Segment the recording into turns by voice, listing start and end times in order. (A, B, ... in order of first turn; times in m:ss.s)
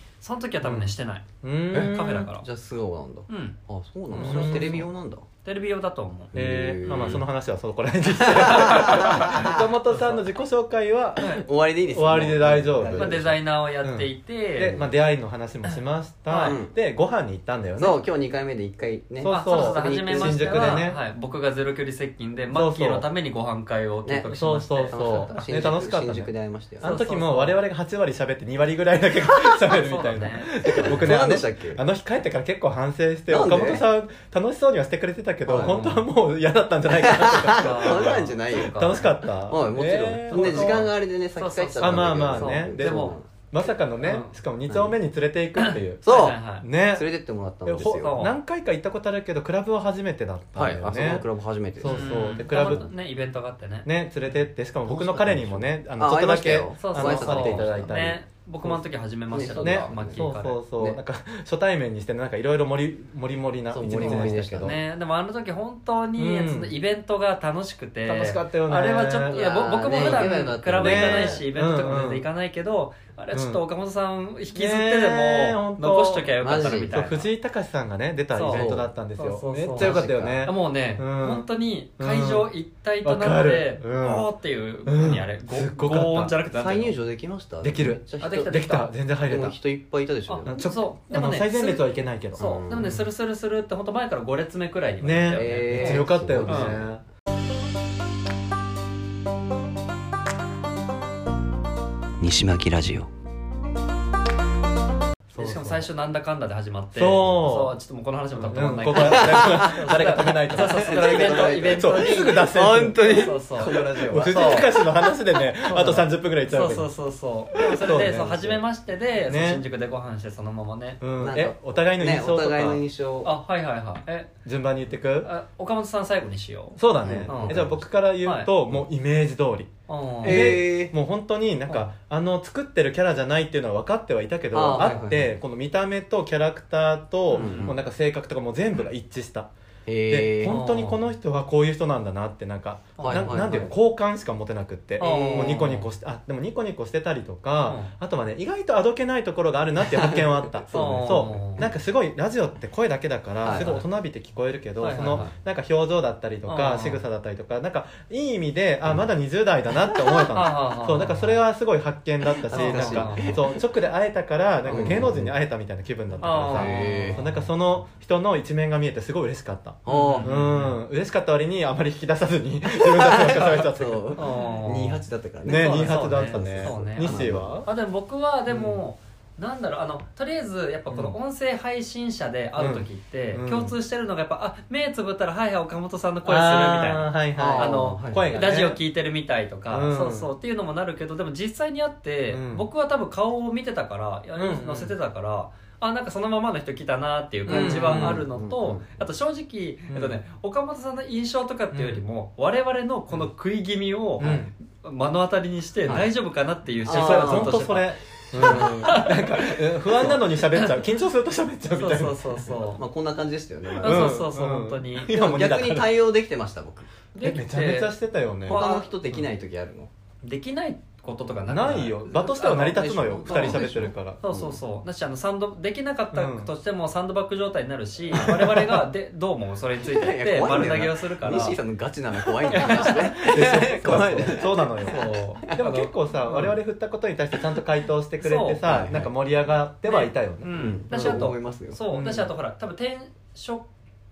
0:00.2-0:02.4 A
0:00.6-0:02.3 B
0:01.7-0:05.2 C
0:03.3-0:03.6 A
0:04.1-0:04.8 A
0:04.1-0:04.9 B
0:05.4-0:06.3 A
0:06.3-0:07.2 C
0:06.3-0:11.4 B
0:06.8-0:07.2 A
0:08.2-0:09.7 C
0:08.4-0:10.2 A
0:11.2-0:11.4 A
0:11.2-0:13.4 C
0:11.9-0:13.2 B
0:12.9-0:14.8 A
0:13.8-0:18.0 B
0:14.6-0:14.9 C
0:16.3-0:16.6 A
0:16.4-0:16.7 C
0:17.8-0:20.8 C
0:19.2-0:21.0 B
0:19.3-0:25.5 A
0:22.5-0:23.0 B
0:24.0-0:24.3 C
0:24.3-0:40.9 B
0:24.9-0:26.9 C
0:26.8-0:27.6 A
0:29.7-0:31.1 A
0:30.7-0:31.8 C
0:33.3-0:33.8 C
0:35.5-0:35.9 C
0:35.5-0:36.0 A
0:36.9-0:43.2 C
0:37.5-0:39.0 A
0:40.3-0:43.2 A
0:41.8-0:47.1 B
0:44.0-0:44.3 A
0:44.7-0:44.9 C
0:45.6-0:46.6 A
0:46.0-0:48.3 C
0:47.6-0:51.2 B
0:47.9-0:48.4 A
0:50.5-0:52.8 C
0:51.8-0:52.9 B
0:51.8-0:53.9 A
0:53.8-0:58.2 B
0:54.8-1:01.0 C
0:56.8-1:00.6 A
0:59.6-1:04.8 B
1:03.7-1:04.7 C
1:03.9-1:17.3 A
1:06.2-1:06.8 B
1:08.0-1:12.2 B
1:09.3-1:11.4 C
1:13.3-1:13.6 B
1:14.5-1:16.3 B
1:16.4-1:17.0 C
1:16.9-1:21.5 B
1:18.3-1:27.0 A
1:18.5-1:18.9 C
1:19.7-1:20.5 C
1:22.0-1:22.5 B
1:23.0-1:24.3 B
1:24.8-1:26.3 B
1:26.5-1:28.7 C
1:27.6-1:29.6 B
1:28.2-1:28.9 A
1:29.3-1:30.6 C
1:30.3-1:36.8 A
1:30.4-1:33.0 B
1:32.4-1:33.0 C
1:35.0-1:37.0 B
1:35.3-1:36.9 C
1:42.2-1:43.1 C
1:45.3-1:45.9 B
1:45.3-1:54.7 A
1:46.9-1:47.7 B
1:48.3-1:56.9 B
1:48.9-1:54.8 C
1:55.6-2:01.0 A
1:57.5-1:58.6 B
1:59.3-1:59.6 B
2:01.0-2:02.8 B
2:01.2-2:03.3 C
2:03.2-2:04.3 A
2:04.4-2:05.3 B
2:05.2-2:07.6 A
2:06.8-2:09.7 B
2:07.0-2:07.8 C
2:08.2-2:08.5 A
2:09.9-2:10.7 A
2:10.2-2:10.9 C
2:10.2-2:19.5 B
2:14.5-2:15.4 C
2:14.7-2:15.1 A
2:17.3-2:17.7 A
2:17.3-2:17.8 C
2:19.8-2:20.6 C
2:20.1-2:54.2 B
2:20.4-2:21.0 A
2:23.0-2:23.7 A
2:23.0-2:23.7 C
2:25.0-2:25.8 C
2:25.0-2:25.9 A
2:27.7-2:27.9 A
2:29.9-2:31.7 C
2:30.7-2:31.7 A
2:33.4-2:33.7 C
2:33.5-2:33.8 A
2:34.8-2:35.3 A
2:36.4-2:37.0 A
2:40.3-2:41.3 A
2:42.4-2:43.5 C
2:42.5-2:43.4 A
2:44.6-2:45.3 C
2:44.7-2:45.0 A
2:46.2-2:47.4 A
2:46.5-2:47.2 C
2:49.8-2:50.4 C
2:49.9-2:50.8 A
2:52.6-2:57.6 C
2:54.2-3:30.8 A
2:55.4-2:57.7 B
2:58.5-2:58.8 C
3:00.9-3:01.2 B
3:02.6-3:03.8 B
3:06.2-3:08.8 B
3:07.4-3:08.4 C
3:09.7-3:10.3 B
3:12.3-3:12.6 B
3:14.4-3:14.9 B
3:17.5-3:18.9 C
3:17.5-3:18.2 B
3:19.9-3:20.2 B
3:21.7-3:22.0 B
3:24.2-3:24.5 B
3:24.2-3:24.5 C
3:26.8-3:27.6 C
3:26.8-3:32.5 B
3:28.3-3:29.0 C
3:31.7-3:32.8 A
3:32.7-3:34.2 C
3:33.8-3:35.1 A
3:33.8-3:35.9 B
3:35.1-3:36.9 C
3:37.1-3:37.9 A
3:37.2-3:38.6 B
3:38.4-3:38.9 A
3:38.5-3:39.9 C
3:40.2-3:42.7 A
3:41.5-3:44.2 B
3:42.1-3:44.6 C
3:43.2-3:43.6 A
3:44.2-3:51.6 A
3:46.1-3:46.5 B
3:48.1-3:48.6 C
3:48.1-3:48.8 B
3:49.8-3:55.6 C
3:52.5-3:56.5 A
3:52.5-4:01.3 B
3:58.2-3:58.6 A
3:58.6-3:59.1 C
3:59.8-4:03.6 A
4:00.5-4:01.8 C
4:01.9-4:02.3 B